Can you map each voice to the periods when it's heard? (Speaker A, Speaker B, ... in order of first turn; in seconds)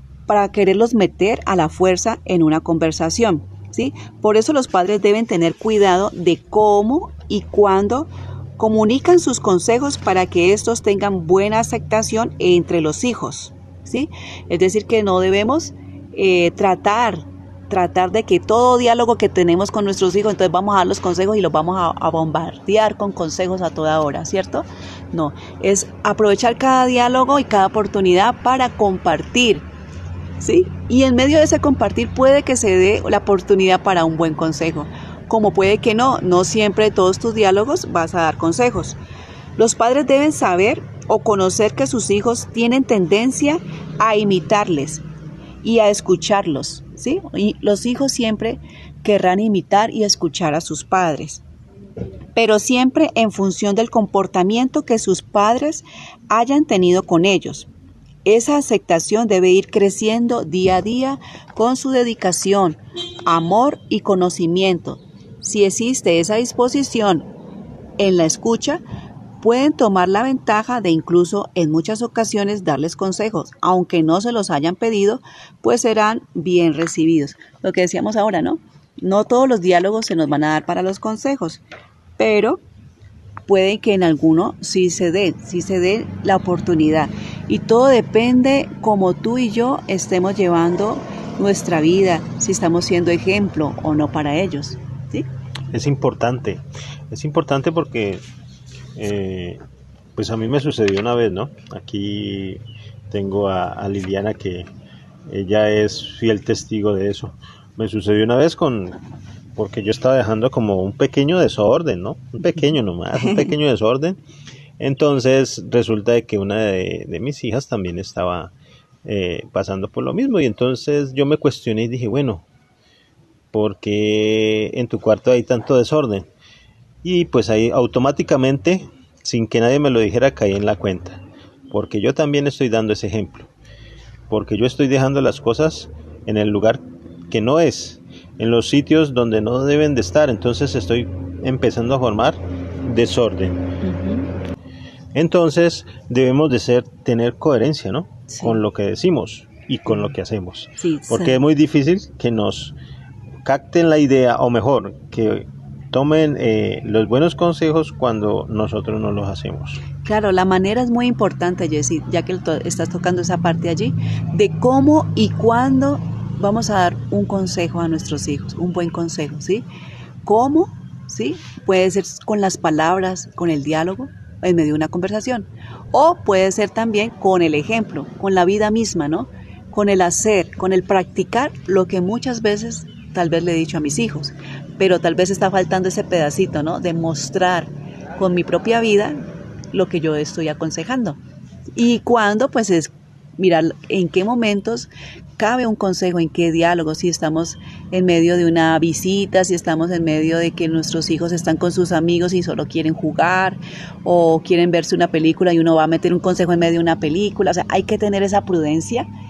Speaker A: 0.3-29.6, 30.4-39.0, 39.6-45.0, 45.6-51.4, 52.4-57.7, 58.2-67.3, 68.0-68.8, 69.4-81.6, 82.2-82.6, 83.5-95.3, 113.2-113.5, 143.8-144.3, 148.3-148.6, 150.8-151.4, 160.0-169.7, 170.2-191.2, 191.7-209.1
Speaker B: 95.7-98.2, 99.0-99.6, 100.2-104.7, 105.3-109.0, 109.6-114.2, 114.8-118.5, 119.0-122.5, 123.5-126.3, 127.0-133.5, 134.3-143.7, 145.1-152.8, 153.4-159.8